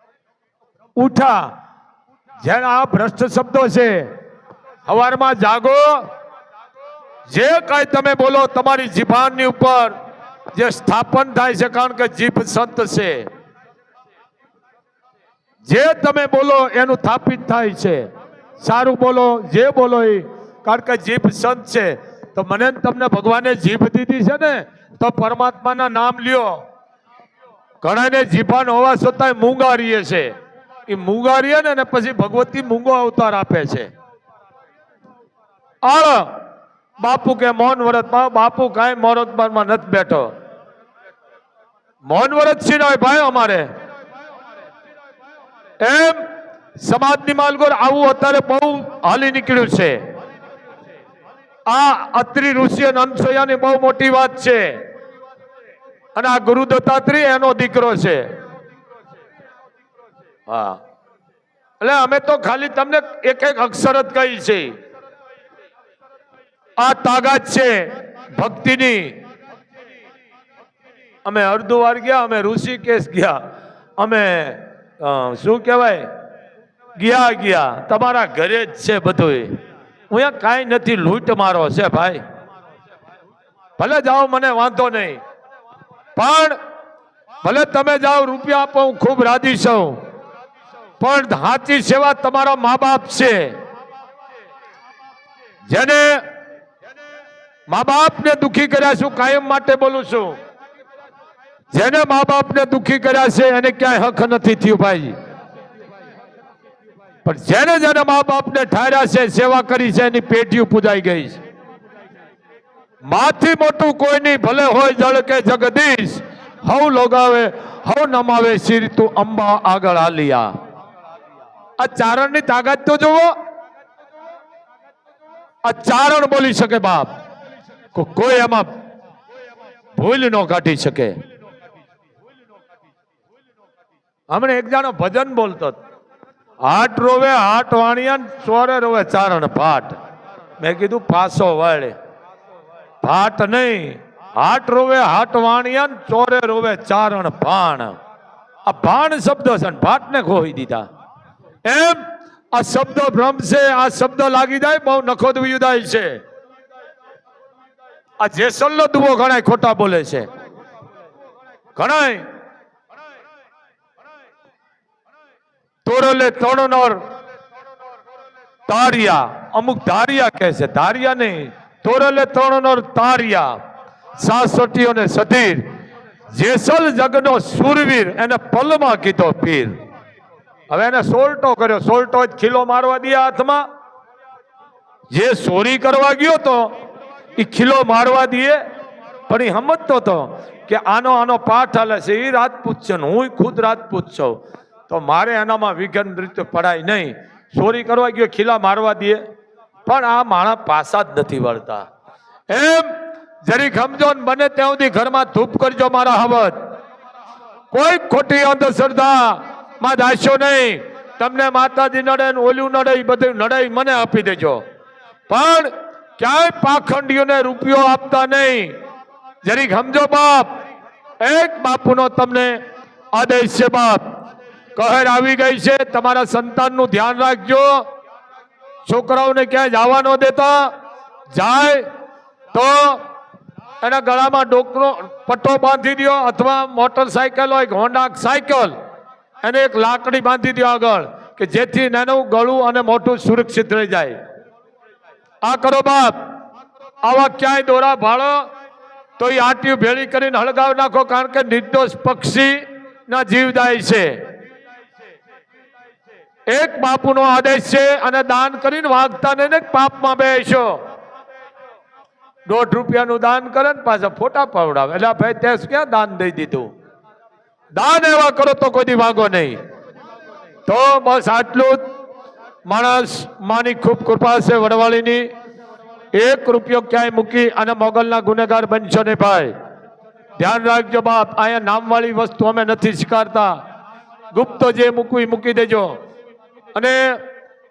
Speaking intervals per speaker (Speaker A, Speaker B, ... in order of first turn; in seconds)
Speaker A: 1.0-1.6, 2.4-4.1, 4.8-6.1, 7.3-10.0, 10.5-13.3, 15.6-18.1, 18.6-26.6, 27.8-30.4, 30.9-33.9, 35.8-36.4, 37.0-40.3, 42.0-43.7, 45.8-46.2, 46.8-50.0, 51.7-54.8, 56.1-58.3, 60.5-60.8, 61.8-64.8, 66.8-69.2, 71.2-73.4, 74.0-76.1, 77.0-82.2, 83.8-85.2, 86.2-86.6, 87.4-90.0, 91.0-93.6, 95.7-96.2, 97.7-100.4, 101.7-105.2, 107.2-111.4, 113.0-120.5, 121.8-123.3, 125.6-127.1, 127.9-128.8, 129.9-131.2, 134.3-135.8, 136.6-140.0, 140.6-141.9, 143.0-147.9, 148.7-150.8, 151.6-156.2, 158.2-160.3, 161.8-162.3, 165.8-167.0, 168.7-173.6, 174.2-175.7, 176.3-179.8, 180.7-183.7, 185.1-186.8, 187.4-188.6, 189.3-199.2, 199.8-201.9, 202.5-206.6, 207.7-214.6, 215.3-218.8, 219.4-220.6, 221.2-222.6, 223.1-224.1, 224.8-227.9, 228.8-230.7, 231.3-231.8, 232.5-233.0, 233.8-238.7, 239.4-244.2, 245.4-246.3, 247.0-248.5, 249.2-254.3, 256.5-260.8, 262.4-266.7, 267.7-269.6, 270.7-271.8, 272.6-275.3, 276.1-279.5, 280.4-283.6, 284.3-286.0, 286.7-287.2